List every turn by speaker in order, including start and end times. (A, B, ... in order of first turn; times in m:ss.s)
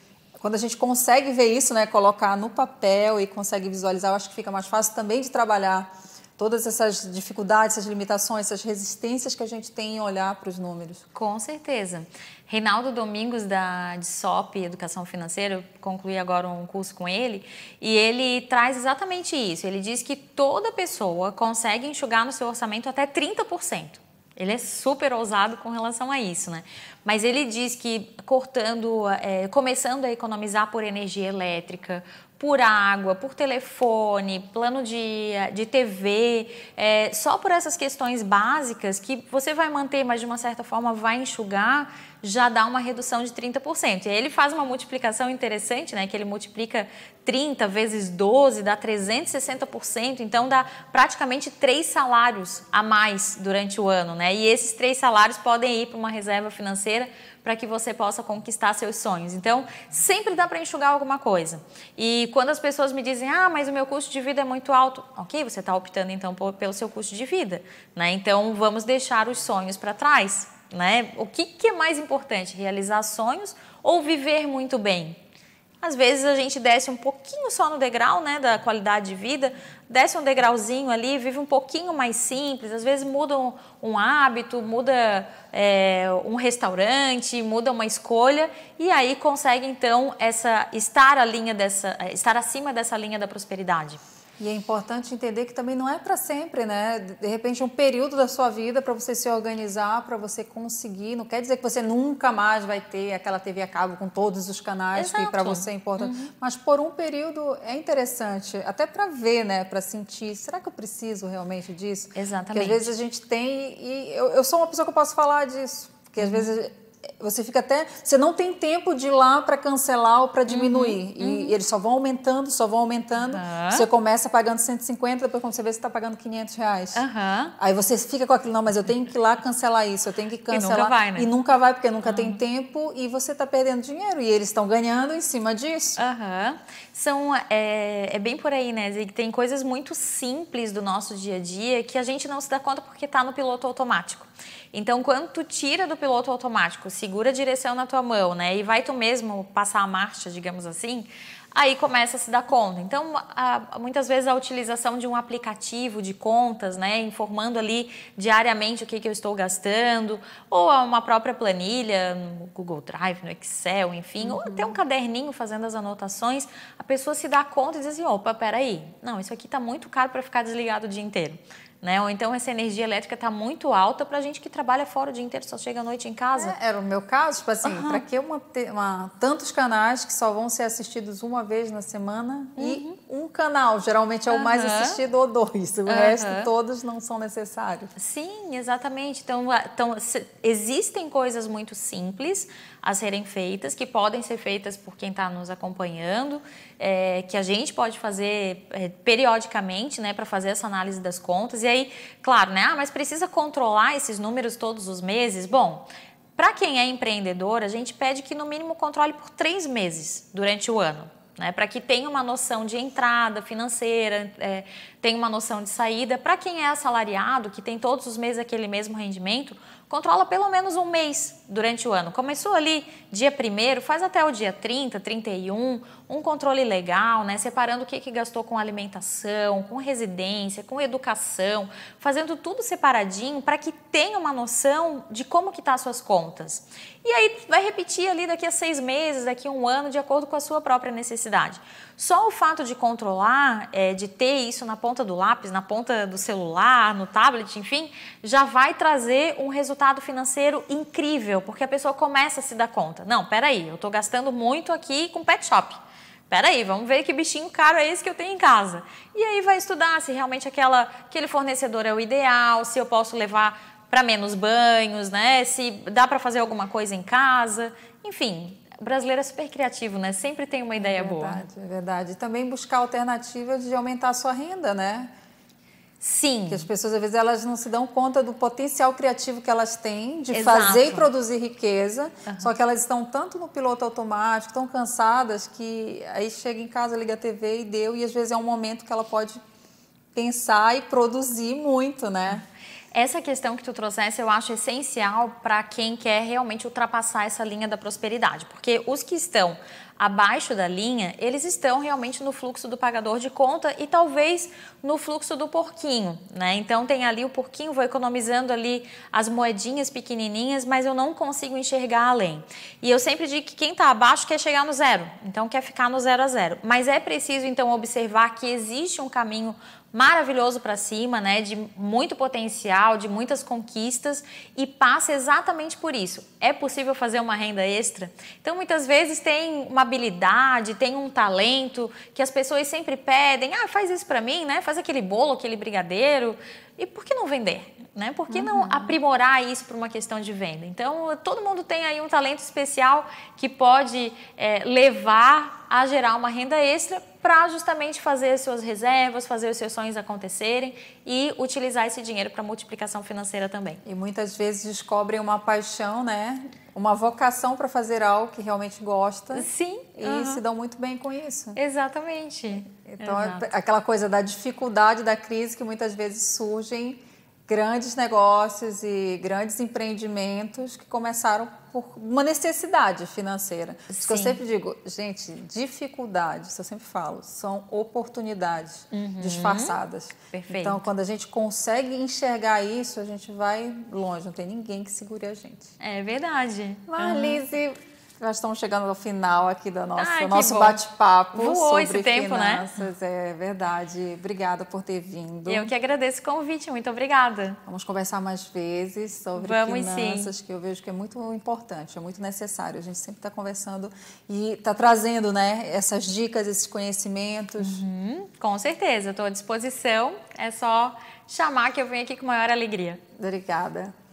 0:00.4-0:11.0 A
0:11.2-1:15.2 B
1:15.8-1:34.0 B
1:34.4-2:07.0 A
1:45.0-1:46.3 B
1:52.2-1:52.9 B
2:00.5-2:01.6 B
2:03.3-2:03.9 B
2:07.0-2:07.6 B
2:07.6-2:16.0 A
2:10.5-2:11.3 B
2:12.0-2:12.4 B
2:16.0-2:56.6 B
2:44.2-2:44.8 A
2:56.4-3:07.9 A
2:57.6-2:58.0 B
3:02.6-3:03.0 B
3:04.3-3:05.0 B
3:05.9-3:06.5 B
3:08.0-3:25.9 B
3:26.4-4:15.8 B
4:16.3-4:31.4 B
4:30.8-4:35.1 A
4:36.0-4:36.7 B
4:36.5-4:49.4 A
4:40.3-4:41.1 B
4:42.3-4:42.5 B
4:50.1-4:52.4 A
4:53.0-5:53.8 B
5:38.3-5:39.0 A
5:53.8-6:01.6 A
5:59.3-6:00.4 B
6:01.6-6:03.5 B
6:02.8-6:25.7 A
6:13.9-6:14.4 B
6:18.9-6:19.8 B
6:20.3-6:20.9 B
6:25.8-6:27.4 B
6:26.9-6:35.7 A
6:30.0-6:30.8 B
6:31.3-6:32.7 B
6:35.5-6:37.6 B
6:37.7-6:47.8 A
6:39.4-6:40.3 B
6:47.6-6:53.0 B
6:53.2-6:53.9 A